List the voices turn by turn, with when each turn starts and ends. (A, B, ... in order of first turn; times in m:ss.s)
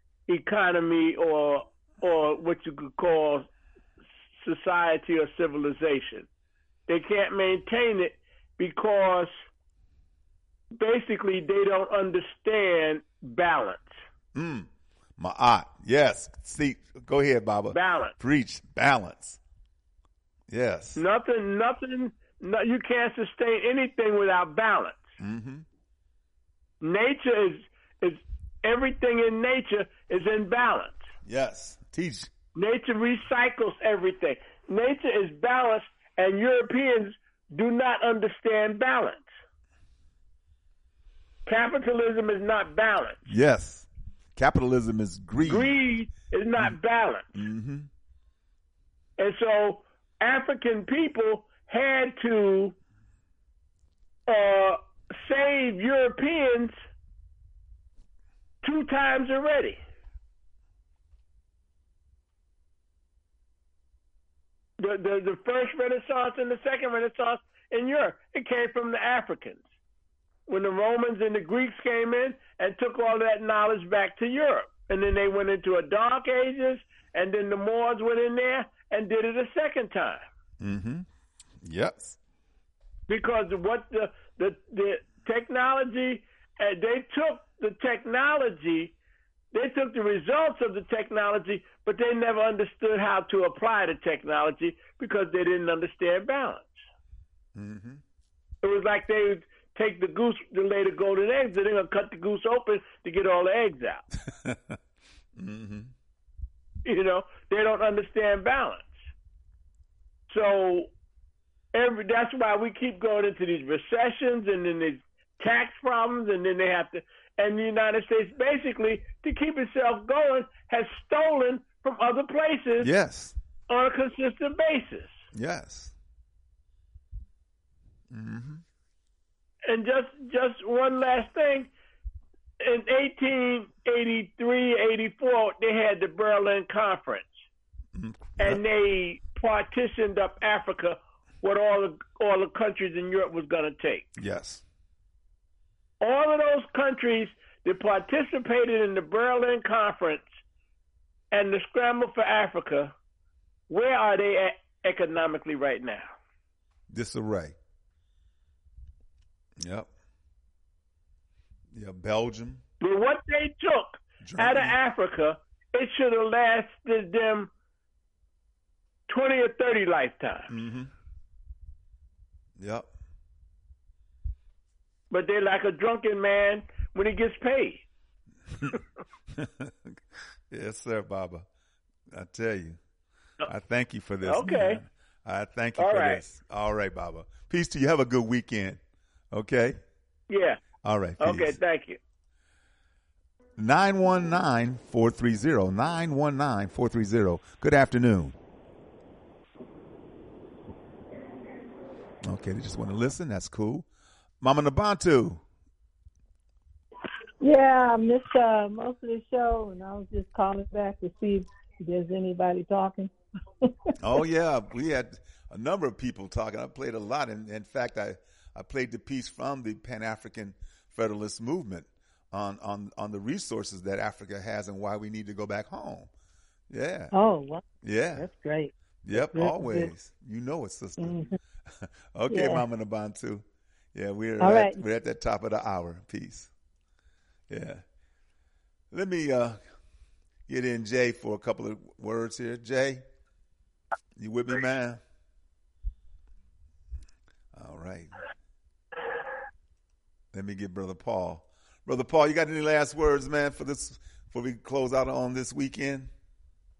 0:00.3-0:03.5 A
0:04.4-0:06.3 A
0:06.9-0:09.3 A
0:10.7-0:13.9 A
0:14.3-0:19.4 B
0:17.7-0:18.1 A
0:20.5-0:21.0 B
0:20.9-0:25.0 A
0:25.2-0:25.6 B
0:26.8-0:31.0 A
0:31.2-0:32.3 B
0:32.5-0:39.3 A
0:41.4-0:43.2 A
0:43.3-0:45.8 B
0:45.4-0:47.3 A
0:47.3-0:47.9 B
0:49.2-0:52.7 A
0:54.3-0:56.7 A
0:58.6-0:59.8 A
1:04.8-1:09.6 A
1:10.5-1:20.2 A
1:20.6-1:21.1 B
1:21.6-1:22.2 B
1:23.1-1:28.9 A
1:29.5-1:36.8 A
1:37.5-1:38.0 B
1:38.6-1:44.0 A
1:44.4-1:44.7 B
1:45.4-1:45.9 B
1:46.8-1:49.0 A
1:50.3-1:50.9 A
1:51.7-2:02.9 A
2:02.8-2:03.3 B
2:03.7-2:05.2 A
2:05.3-2:05.9 B
2:08.1-2:08.6 B
2:09.6-2:11.7 A
2:12.6-2:17.3 A
2:17.9-2:18.6 B
2:18.4-2:24.1 A
2:24.2-2:24.6 B
2:26.0-2:30.3 A
2:31.3-2:32.9 A
2:33.7-2:36.1 A
2:36.9-2:37.5 B
2:39.6-2:39.9 B
2:41.7-2:42.6 B
2:42.8-2:47.5 A
2:44.2-2:44.8 B
2:49.1-2:50.5 A
2:50.5-2:50.9 B
2:52.6-2:52.9 B
2:55.1-2:57.8 A
2:59.4-2:59.9 B
3:00.5-3:01.4 B
3:02.1-3:02.8 B
3:03.4-3:08.8 B
3:04.2-3:04.8 A
3:05.8-3:06.2 A
3:09.3-3:09.8 B
3:10.3-3:10.6 A
3:10.8-3:11.6 B
3:11.2-3:12.0 A
3:13.6-3:18.4 B
3:22.2-3:23.8 B
3:24.4-3:25.4 B
3:27.4-3:33.1 C
3:34.0-3:46.1 B
3:46.7-3:47.1 B
3:47.1-3:47.6 C
3:47.8-3:48.3 B
3:48.2-3:49.9 C
3:49.0-3:51.3 B
3:51.0-3:51.3 C
3:52.1-3:53.4 B
3:52.3-3:52.6 C
3:53.9-3:56.5 B
3:54.4-3:54.8 C
3:57.5-3:57.8 B
3:58.9-3:59.6 B
4:00.5-4:03.0 B
4:04.2-4:05.0 B
4:07.5-4:08.1 B
4:10.3-4:16.1 B